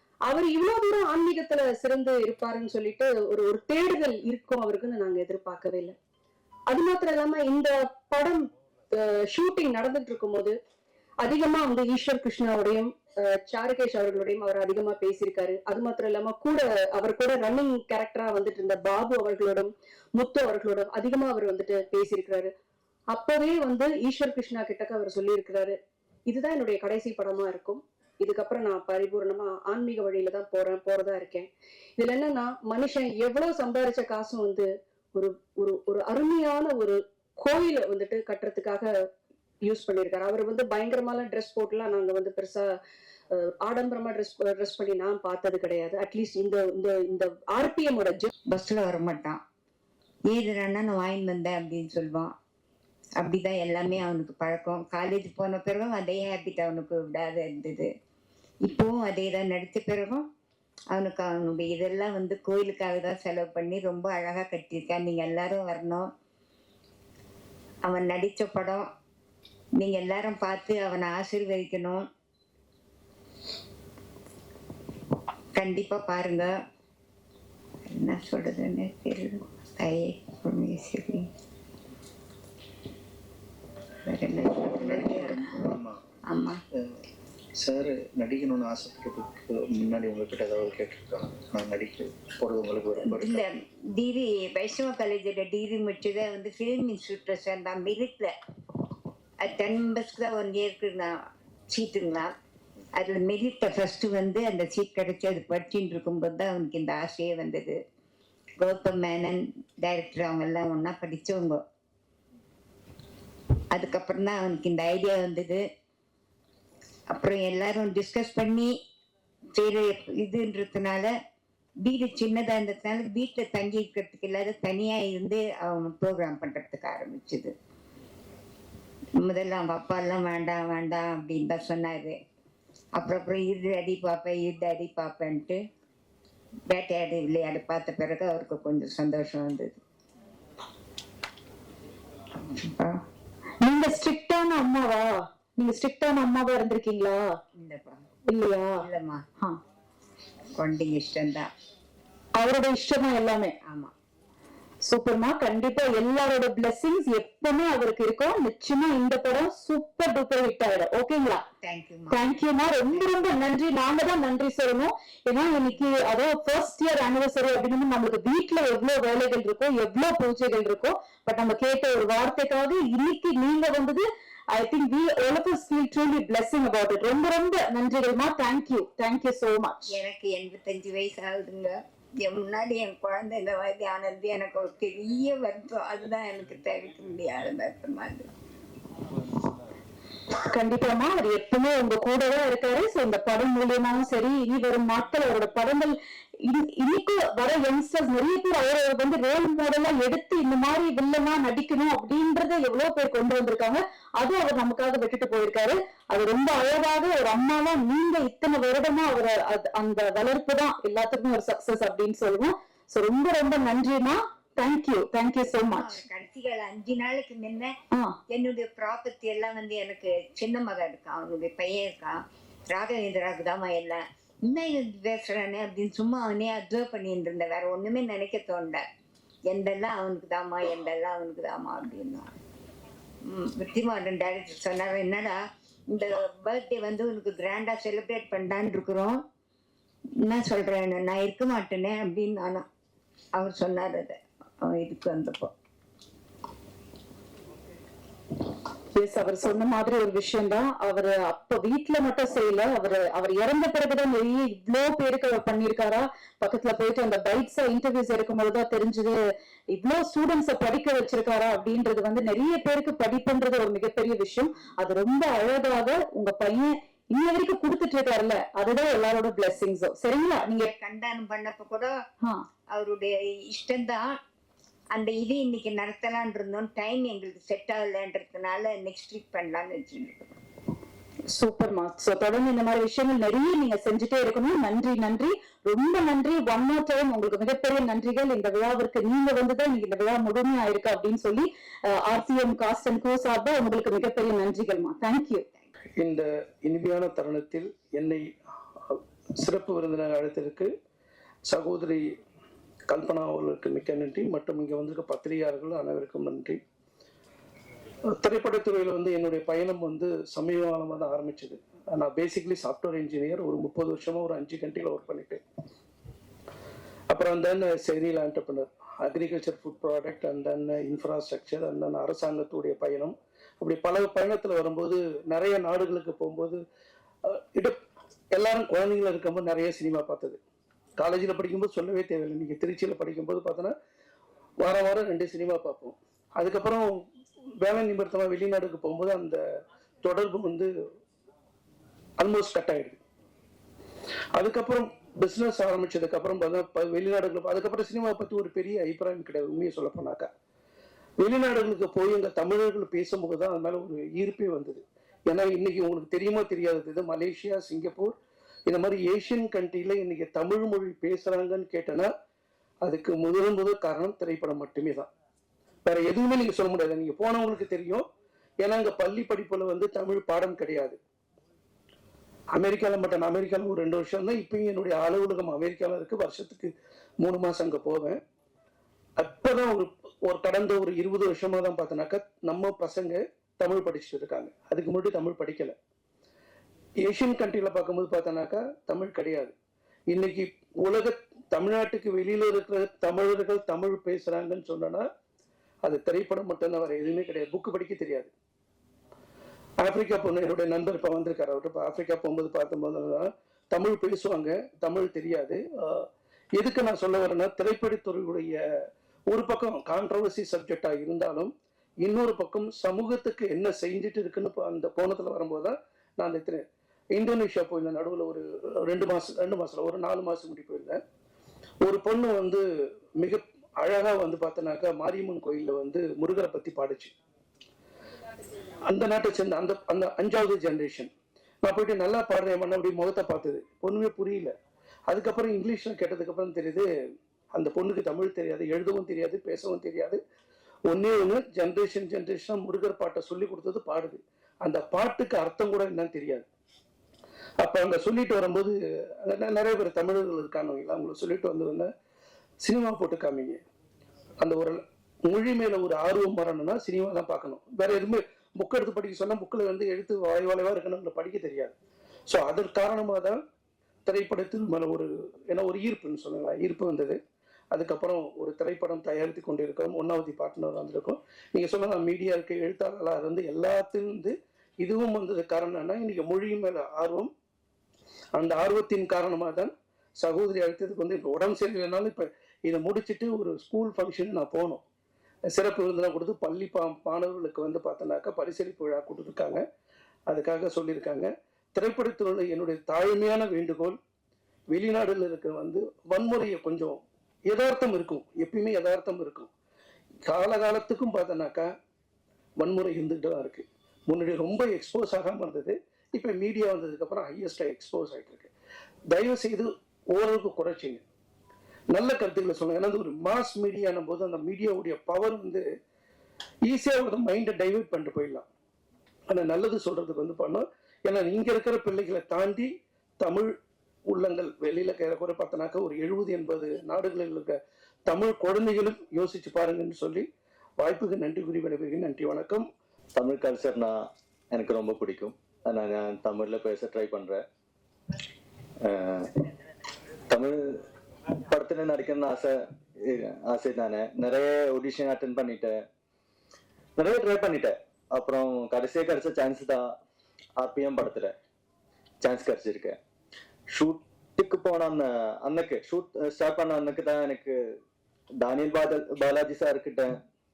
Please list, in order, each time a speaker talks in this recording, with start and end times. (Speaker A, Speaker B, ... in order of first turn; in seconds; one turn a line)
Speaker A: 0.3-5.9
Speaker A: 6.7-10.5
Speaker A: 11.2-22.5
Speaker A: 23.1-25.8
Speaker A: 26.3-38.9
Speaker A: 39.6-42.7
Speaker A: 43.4-48.3
Speaker B: 48.5-49.4
Speaker B: 50.3-52.3
Speaker B: 53.2-57.9
Speaker B: 58.7-60.2
Speaker B: 60.9-66.1
Speaker B: 67.8-68.9
Speaker B: 69.8-72.0
Speaker B: 75.5-76.5
Speaker B: 77.9-81.2
Speaker B: 84.0-85.7
Speaker C: 84.3-86.0
Speaker B: 86.3-86.6
Speaker C: 86.7-87.0
Speaker C: 87.6-93.4
Speaker B: 93.0-98.3
Speaker B: 99.4-101.1
Speaker B: 101.7-102.3
Speaker B: 103.0-107.8
Speaker B: 108.6-111.6
Speaker B: 113.7-115.6
Speaker B: 117.1-118.7
Speaker B: 119.5-121.1
Speaker B: 121.8-127.5
Speaker B: 129.2-132.2
Speaker B: 132.9-135.6
Speaker B: 136.7-139.8
Speaker B: 142.5-143.0
Speaker D: 143.6-147.2
Speaker B: 147.6-148.1
Speaker D: 148.3-148.8
Speaker B: 148.8-149.2
Speaker B: 150.6-151.5
Speaker D: 152.4-153.5
Speaker B: 153.7-153.9
Speaker D: 154.8-161.4
Speaker B: 161.6-162.4
Speaker D: 162.1-179.9
Speaker B: 162.9-163.4
Speaker B: 179.9-188.3
Speaker D: 190.5-216.0
Speaker B: 215.7-217.7
Speaker D: 217.9-218.2
Speaker B: 218.3-228.8
Speaker B: 229.5-232.3
Speaker B: 233.2-235.4
Speaker B: 235.9-239.2
Speaker B: 240.2-242.6
Speaker B: 243.3-245.5
Speaker D: 249.0-259.2
Speaker D: 259.7-270.7
Speaker B: 270.4-271.9
Speaker B: 272.7-274.2
Speaker B: 274.9-280.3
Speaker D: 281.3-295.4
Speaker E: 296.0-298.3
Speaker E: 298.8-300.7
Speaker E: 301.4-302.1
Speaker E: 302.9-306.6
Speaker E: 308.1-315.4
Speaker E: 317.1-326.6
Speaker E: 327.3-327.8
Speaker E: 328.3-330.4
Speaker E: 331.0-333.7
Speaker E: 334.6-336.9
Speaker E: 337.6-339.4
Speaker E: 340.0-340.7
Speaker E: 342.2-343.0
Speaker E: 344.3-350.3
Speaker E: 351.2-362.1
Speaker E: 362.8-365.1
Speaker E: 365.8-368.1
Speaker E: 368.6-371.0
Speaker E: 372.5-378.2
Speaker E: 379.2-385.8
Speaker E: 387.0-389.5
Speaker E: 390.1-395.1
Speaker E: 395.8-398.3
Speaker E: 399.8-408.6
Speaker E: 409.3-421.0
Speaker E: 421.8-422.6
Speaker E: 423.2-427.1
Speaker E: 428.9-431.1
Speaker E: 431.6-434.5
Speaker E: 435.1-436.9
Speaker E: 437.5-440.2
Speaker E: 440.9-446.4
Speaker E: 447.6-451.9
Speaker E: 452.6-453.6
Speaker E: 454.4-461.7
Speaker E: 462.3-463.4
Speaker E: 464.1-467.2
Speaker E: 467.7-477.3
Speaker E: 478.3-484.8
Speaker E: 485.5-489.6
Speaker E: 490.3-494.0
Speaker E: 494.7-499.5
Speaker E: 500.2-501.7
Speaker E: 502.6-508.5
Speaker E: 509.1-511.0
Speaker E: 511.9-515.7
Speaker E: 516.7-518.5
Speaker E: 519.3-523.5
Speaker E: 524.1-530.3
Speaker E: 530.8-532.7
Speaker F: 533.1-537.4
Speaker F: 538.8-539.3
Speaker F: 540.3-540.8
Speaker F: 541.5-545.8
Speaker F: 547.0-550.0
Speaker F: 550.5-551.4
Speaker F: 552.2-553.0
Speaker F: 553.7-557.8
Speaker F: 558.4-560.2